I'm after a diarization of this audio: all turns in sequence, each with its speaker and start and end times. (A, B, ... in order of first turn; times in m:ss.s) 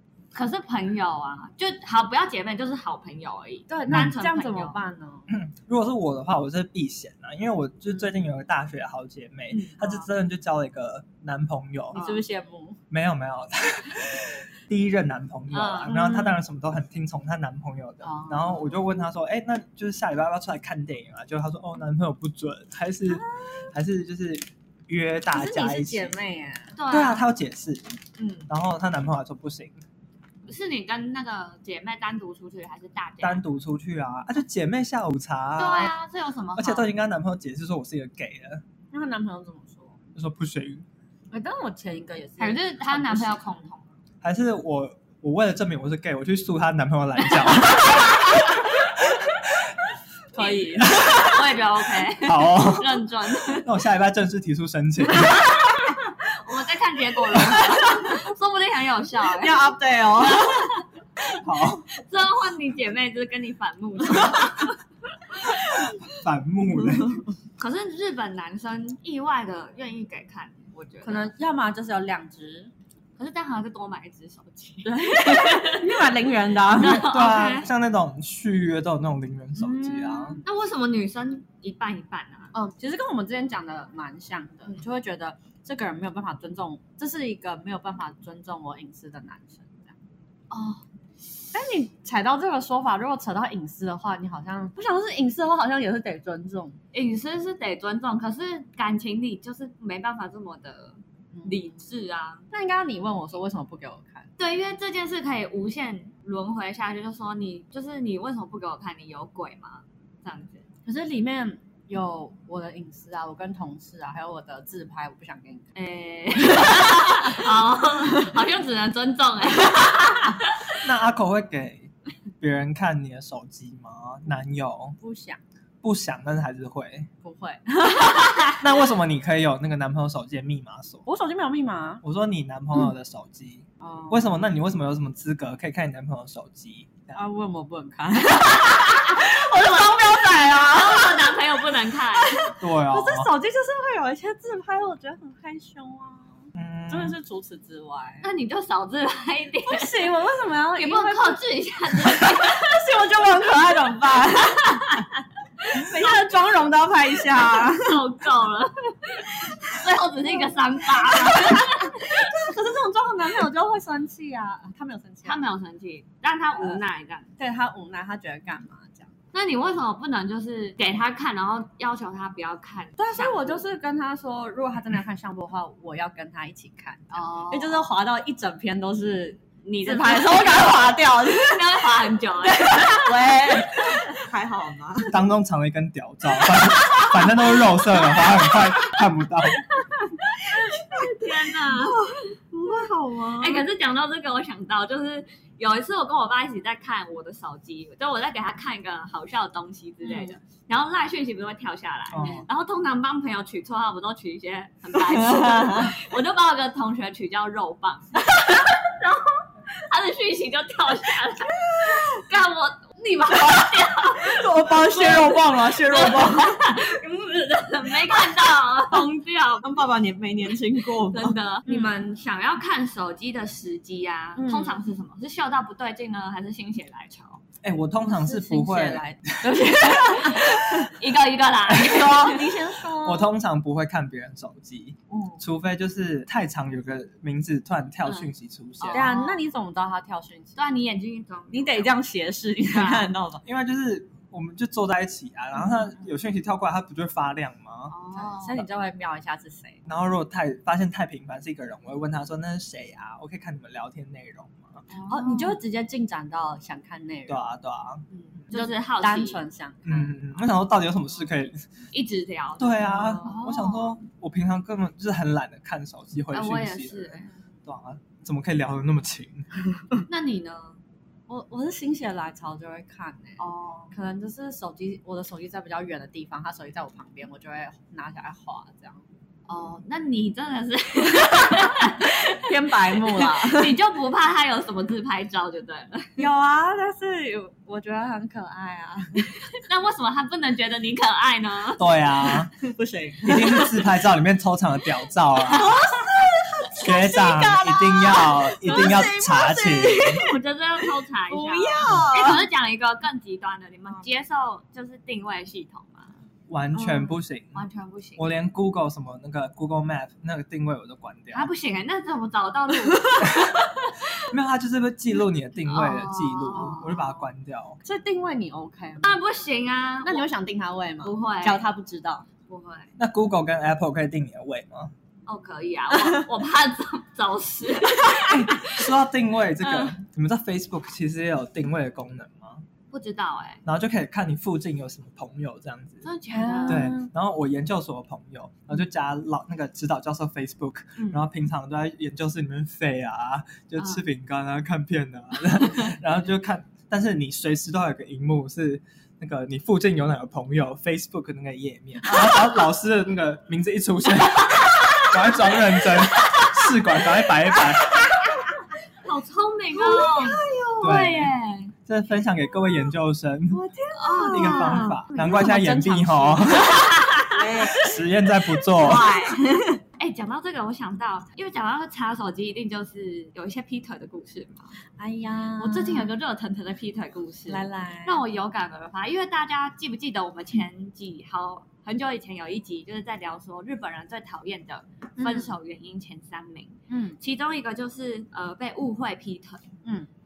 0:00.3-0:04.8 A
0:03.7-0:05.3 B
0:05.3-0:12.0 C
0:09.5-0:10.1 A
0:11.9-0:12.8 B
0:11.9-0:12.2 A
0:12.9-0:26.1 C
0:15.5-0:16.0 A
0:15.8-0:16.4 B
0:18.0-0:18.7 B
0:23.1-0:23.6 B
0:25.3-0:26.8 B
0:26.8-0:27.3 A
0:26.9-0:27.9 C
0:28.5-0:29.8 C
0:30.5-0:33.4 A
0:33.2-0:35.9 C
0:35.6-0:36.9 A
0:36.6-0:38.6 C
0:38.9-0:40.0 B
0:40.1-0:40.8 C
0:41.3-0:43.4 B
0:42.4-0:43.9 A
0:44.2-0:48.5 C
0:47.8-0:48.2 A
0:50.3-0:51.4 B
0:50.3-0:53.7 A
0:50.8-0:51.4 C
0:52.2-0:55.5 C
0:55.6-1:00.8 A
0:57.4-0:58.2 B
0:59.3-1:00.8 B
1:01.3-1:01.8 C
1:01.9-1:05.5 A
1:05.7-1:07.2 C
1:07.6-1:11.3 A
1:11.0-1:12.7 B
1:13.2-1:16.0 A
1:14.8-1:17.1 B
1:16.7-1:17.7 A
1:16.8-1:20.4 C
1:19.6-1:20.4 B
1:19.7-1:22.5 A
1:22.5-1:29.9 B
1:30.5-1:30.8 A
1:31.5-1:36.8 B
1:36.9-1:42.4 A
1:41.3-1:41.8 B
1:42.5-1:44.3 B
1:44.4-1:50.6 A
1:50.8-1:55.7 B
1:55.7-2:00.8 A
1:56.4-1:57.5 B
2:00.8-2:05.0 C
2:05.0-2:05.4 B
2:05.8-2:07.1 C
2:07.2-2:08.6 B
2:08.6-2:11.0 C
2:11.0-2:12.0 B
2:12.0-2:17.2 C
2:13.8-2:14.3 B
2:17.1-2:21.6 B
2:20.5-2:22.5 A
2:22.1-2:28.3 B
2:22.6-2:23.3 C
2:26.5-2:27.2 C
2:28.2-2:30.0 A
2:29.7-2:31.4 B
2:30.8-2:32.8 A
2:31.9-2:35.1 B
2:35.6-2:38.0 B
2:37.5-2:42.3 A
2:39.4-2:39.8 B
2:40.8-2:45.4 B
2:45.2-2:47.3 A
2:47.4-2:49.1 B
2:49.3-2:53.6 A
2:53.0-3:01.9 B
2:57.1-2:57.9 A
2:59.6-3:03.2 A
3:02.4-3:05.1 B
3:05.1-3:09.6 C
3:06.8-3:07.1 B
3:10.3-3:13.6 B
3:10.4-3:12.8 A
3:13.4-3:39.8 A
3:20.0-3:20.3 B
3:22.1-3:22.4 C
3:25.0-3:26.0 B
3:31.6-3:32.2 B
3:33.4-3:36.6 B
3:39.6-3:42.0 B
3:40.8-3:47.4 A
3:44.4-3:44.8 B
3:47.6-3:49.6 C
3:48.1-3:50.9 B
3:50.9-3:52.5 A
3:51.7-3:53.3 B
3:53.0-3:59.1 C
3:55.1-3:55.4 B
3:58.0-3:59.4 A
3:58.9-4:00.6 B
4:00.6-4:01.9 A
4:01.5-4:03.4 B
4:02.7-4:03.1 A
4:03.4-4:07.9 C
4:07.9-4:08.6 A
4:08.1-4:09.8 B
4:09.8-4:14.8 C
4:14.9-4:15.6 A
4:15.1-4:17.4 B
4:17.3-4:18.0 C
4:18.5-4:19.4 A
4:18.5-4:20.4 B
4:19.8-4:21.6 C
4:21.9-4:24.0 A
4:22.6-4:29.6 C
4:23.0-4:23.4 B
4:26.3-4:27.3 A
4:30.0-4:30.8 A
4:31.3-4:39.0 B
4:33.4-4:33.9 A
4:39.5-4:46.3 A
4:41.7-4:43.8 B
4:46.2-4:49.4 B
4:49.5-4:51.9 A
4:51.8-4:52.5 C
4:52.6-4:53.8 B
4:53.2-4:55.7 C
4:55.5-5:02.4 B
4:56.8-5:00.2 C
4:58.7-4:59.0 A
5:00.0-5:06.1 A
5:06.5-5:07.6 C
5:06.7-5:08.3 A
5:08.2-5:11.5 C
5:11.3-5:14.3 A
5:14.2-5:17.8 C
5:15.7-5:17.3 A
5:17.8-5:19.2 B
5:19.0-5:20.3 A
5:20.0-5:22.2 B
5:21.0-5:21.6 A
5:22.5-5:22.9 A
5:23.0-5:24.9 C
5:25.2-5:28.9 A
5:28.3-5:32.6 C
5:29.6-5:29.9 A
5:32.9-5:33.6 A
5:33.6-5:36.0 C
5:36.0-5:36.9 A
5:36.3-5:37.1 B
5:36.6-5:58.1 C
5:43.8-5:44.0 A
5:57.9-5:58.6 B
5:59.0-6:01.7 A
5:59.7-6:01.0 B
6:00.8-6:01.3 C
6:01.8-6:03.6 C
6:03.5-6:08.0 B
6:03.9-6:05.0 A
6:04.3-6:07.0 C
6:07.7-6:09.1 C
6:08.6-6:09.8 B
6:08.8-6:09.4 A
6:10.0-6:14.7 A
6:15.0-6:16.1 B
6:15.6-6:29.7 A
6:17.5-6:18.2 B
6:25.2-6:25.5 B
6:26.9-6:27.2 B